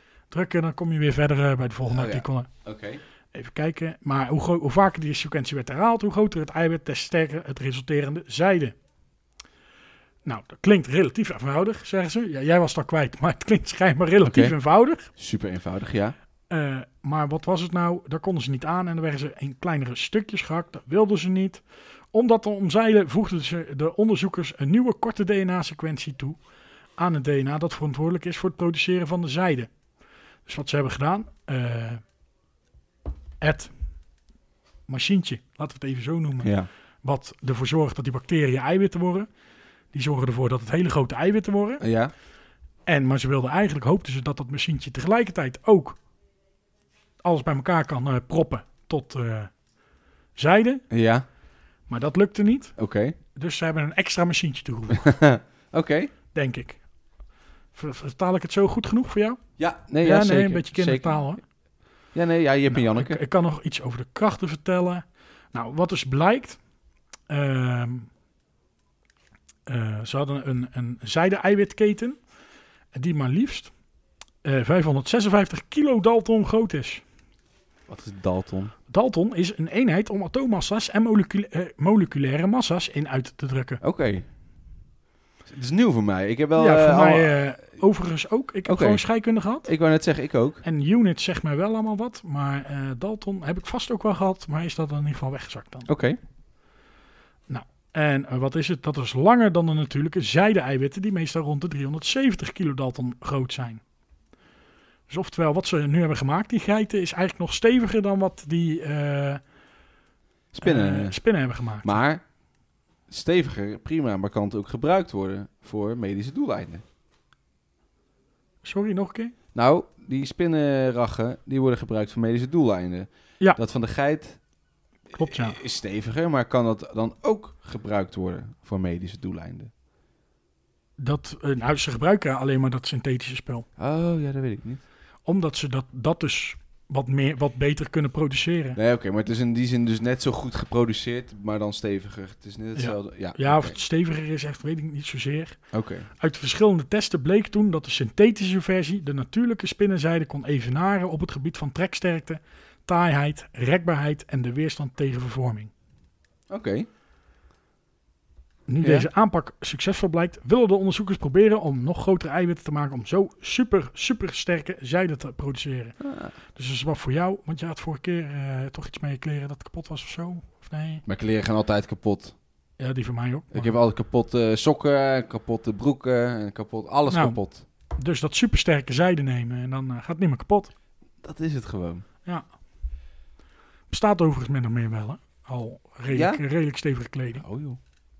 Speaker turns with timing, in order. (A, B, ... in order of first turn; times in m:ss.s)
0:00.3-0:02.5 A
0:01.9-0:03.0 B
0:03.3-0:08.8 A
0:10.2-0:15.1 A
0:14.2-0:14.6 B
0:15.2-0:16.2 B
0:16.5-0:21.6 A
0:22.1-0:26.4 A
0:27.0-0:29.7 A
0:30.4-0:32.0 A
0:33.4-0:33.7 A
0:34.9-0:39.3 A
0:36.4-0:36.7 B
0:39.9-0:41.8 A
0:41.8-0:42.1 B
0:42.8-0:46.0 A
0:47.2-0:49.5 A
0:50.4-0:50.8 A
0:50.9-0:51.2 B
0:51.9-0:52.7 A
0:52.8-0:53.2 B
0:53.3-0:55.1 A
0:54.9-0:56.1 B
0:56.3-0:56.8 A
0:57.7-0:59.4 A
0:59.6-1:01.3 B
1:00.0-1:01.4 A
1:02.1-1:03.2 B
1:02.7-1:06.6 A
1:07.3-1:08.1 A
1:09.7-1:12.2 A
1:12.9-1:13.7 A
1:14.4-1:17.0 A
1:17.9-1:18.7 B
1:18.9-1:23.8 A
1:23.8-1:24.2 B
1:25.4-1:27.4 B
1:26.6-1:29.7 A
1:28.6-1:29.0 B
1:29.6-1:30.6 B
1:30.6-1:35.9 A
1:35.9-1:36.2 B
1:37.5-1:43.8 A
1:45.1-1:49.4 A
1:50.5-1:51.2 B
1:50.6-1:52.0 A
1:51.8-1:52.2 B
1:53.1-1:56.8 B
1:58.6-1:59.3 A
1:59.5-2:04.4 B
2:05.1-2:09.7 B
2:05.1-2:05.6 A
2:11.0-2:13.7 A
2:13.8-2:14.8 B
2:15.2-2:18.8 A
2:18.8-2:23.8 B
2:22.8-2:25.6 A
2:25.7-2:26.1 B
2:26.2-2:35.7 A
2:36.5-2:36.9 B
2:38.7-2:46.0 A
2:38.8-2:39.1 B
2:46.0-2:46.3 B
2:46.5-2:51.0 A
2:51.0-2:52.3 B
2:52.8-2:53.7 A
2:53.5-2:57.6 B
2:57.1-2:57.4 A
2:58.0-3:00.7 A
3:01.2-3:02.0 B
3:03.9-3:07.4 A
3:06.1-3:06.4 B
3:07.4-3:07.8 B